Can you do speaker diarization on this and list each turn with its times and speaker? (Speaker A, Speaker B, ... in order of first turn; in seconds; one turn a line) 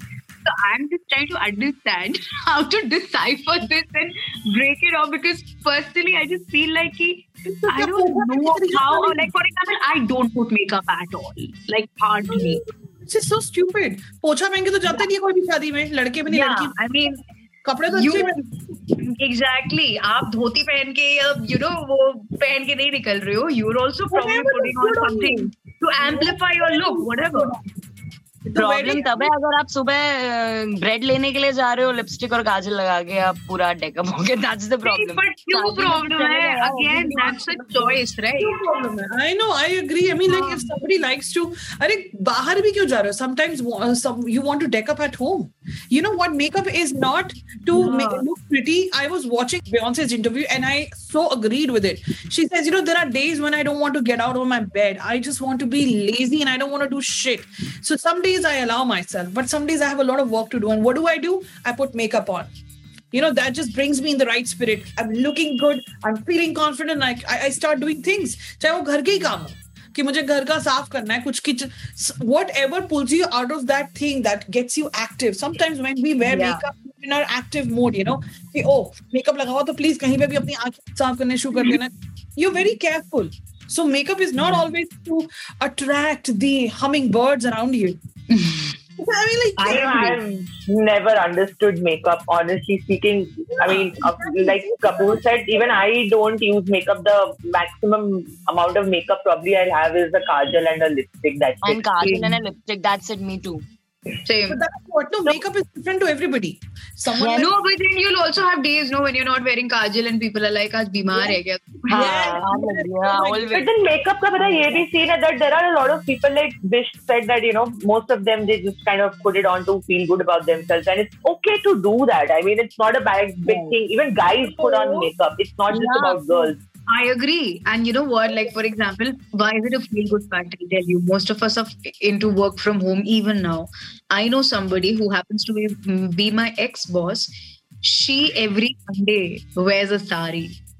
Speaker A: 0.4-12.6
Speaker B: 7.5-9.3
Speaker B: 12.3-16.7
Speaker A: 16.3-17.2
Speaker B: 17.6-18.4
Speaker A: 17.9-27.6
Speaker B: 24.1-25.5
Speaker B: 26.0-27.5
Speaker B: 28.4-29.3
Speaker C: 28.6-38.0
Speaker A: 34.8-38.6
Speaker B: 38.4-62.5
Speaker A: 40.3-40.7
Speaker A: 47.7-48.3
Speaker B: 63.1-88.0
Speaker A: 76.2-76.6
Speaker A: 84.4-84.6
Speaker A: 88.3-88.7
Speaker B: 89.0-90.1
Speaker D: 89.6-101.8
Speaker B: 93.6-95.7
Speaker C: 101.6-103.6
Speaker A: 102.0-102.3
Speaker A: 104.2-104.6
Speaker B: 104.5-107.5
Speaker A: 107.2-112.3
Speaker B: 111.9-113.7
Speaker C: 111.9-114.8
Speaker D: 113.5-126.6
Speaker C: 123.5-123.8
Speaker A: 124.4-125.0
Speaker C: 125.7-126.3
Speaker A: 126.9-137.3
Speaker A: 137.8-140.6